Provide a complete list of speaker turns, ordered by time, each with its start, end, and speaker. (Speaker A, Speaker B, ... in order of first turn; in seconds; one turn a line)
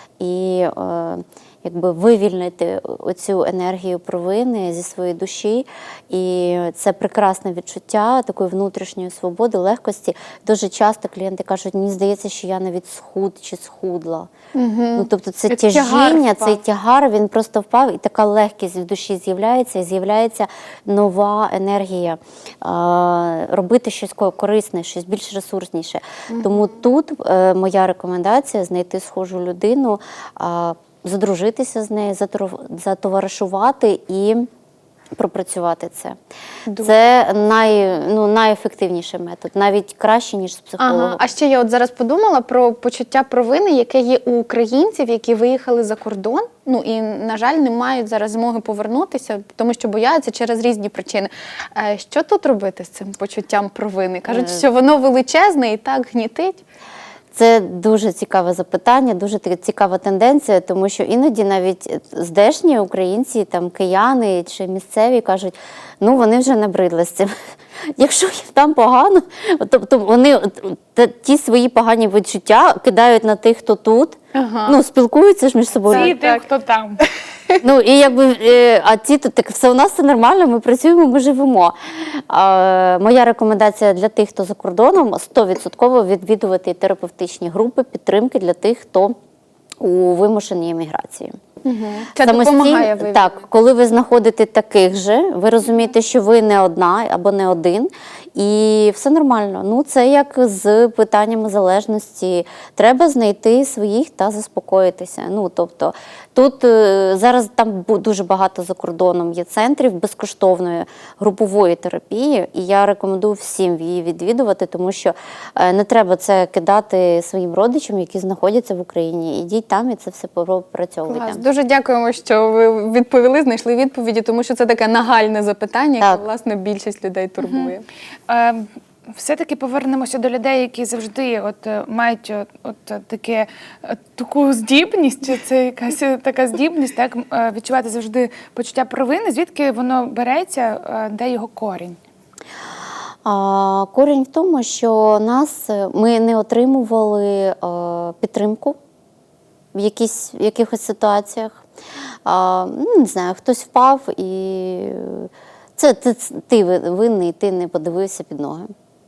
Speaker A: 0.2-14.3
Speaker B: 14.5-16.6
Speaker A: 15.0-34.5
Speaker A: 35.2-36.2
Speaker B: 36.7-37.0
Speaker A: 36.8-41.2
Speaker B: 40.8-56.6
Speaker A: 54.3-54.6
Speaker A: 57.3-67.3
Speaker A: 68.0-76.2
Speaker B: 74.3-74.8
Speaker B: 75.9-76.4
Speaker C: 75.9-77.0
Speaker A: 77.6-89.1
Speaker A: 89.8-91.4
Speaker B: 91.7-93.4
Speaker A: 92.2-121.4
Speaker B: 121.1-127.8
Speaker C: 127.4-127.7
Speaker C: 128.3-142.0
Speaker A: 143.2-148.8
Speaker A: 149.7-151.6
Speaker A: 152.3-158.7